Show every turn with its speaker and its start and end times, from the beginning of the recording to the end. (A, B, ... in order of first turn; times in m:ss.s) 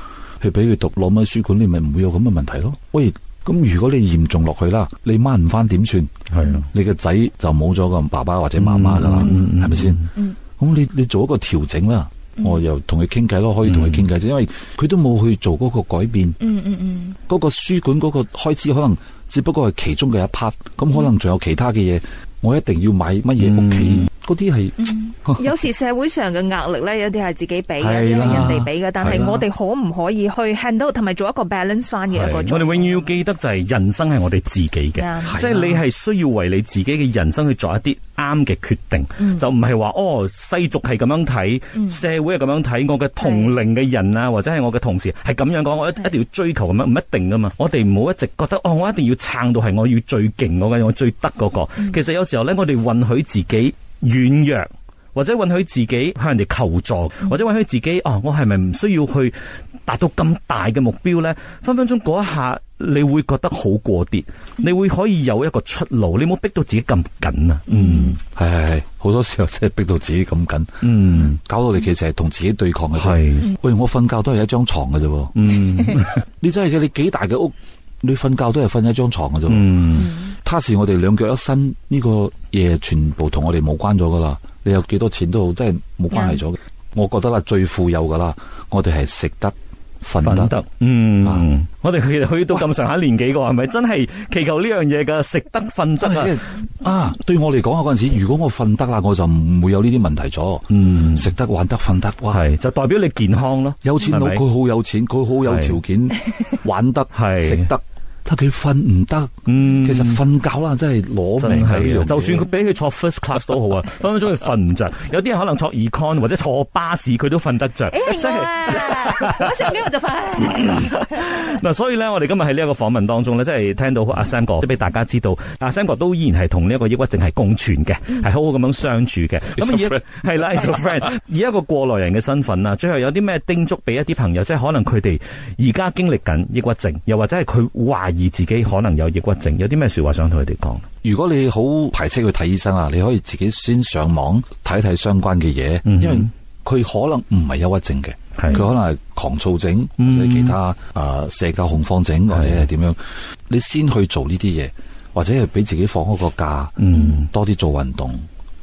0:00.4-0:06.1 A
0:06.3-0:06.7 B
0:06.6-0:16.4 A
0:08.6-0:10.1 B
0:13.7-0:14.1 B
0:16.4-0:17.2 C
0:17.3-0:25.5 A
0:23.4-0:24.1 B
0:24.8-0:33.1 C
0:27.8-0:29.4 A
0:28.2-0:29.4 B
0:32.1-1:08.2 B
0:35.0-0:35.8 C
0:35.3-0:35.7 A
0:43.2-0:43.5 C
1:07.7-1:08.2 C
1:08.3-1:30.6 A
1:10.8-1:11.4 B
1:13.0-1:13.6 B
1:15.4-1:16.2 B
1:19.5-1:20.1 B
1:30.2-1:36.4 B
1:31.2-1:31.5 A
1:36.0-1:42.5 A
1:40.7-1:41.3 B
1:42.3-1:44.4 B
1:43.8-1:52.5 A
1:45.4-1:45.8 B
1:47.1-1:47.7 B
1:49.5-1:50.2 B
1:51.4-1:59.7 B
1:57.9-2:01.3 C
2:00.4-2:20.8 B
2:09.6-2:10.0 A
2:21.0-2:38.3 A
2:25.8-2:26.3 B
2:28.4-2:28.6 B
2:30.0-2:30.6 B
2:32.3-2:32.7 B
2:36.8-2:37.3 B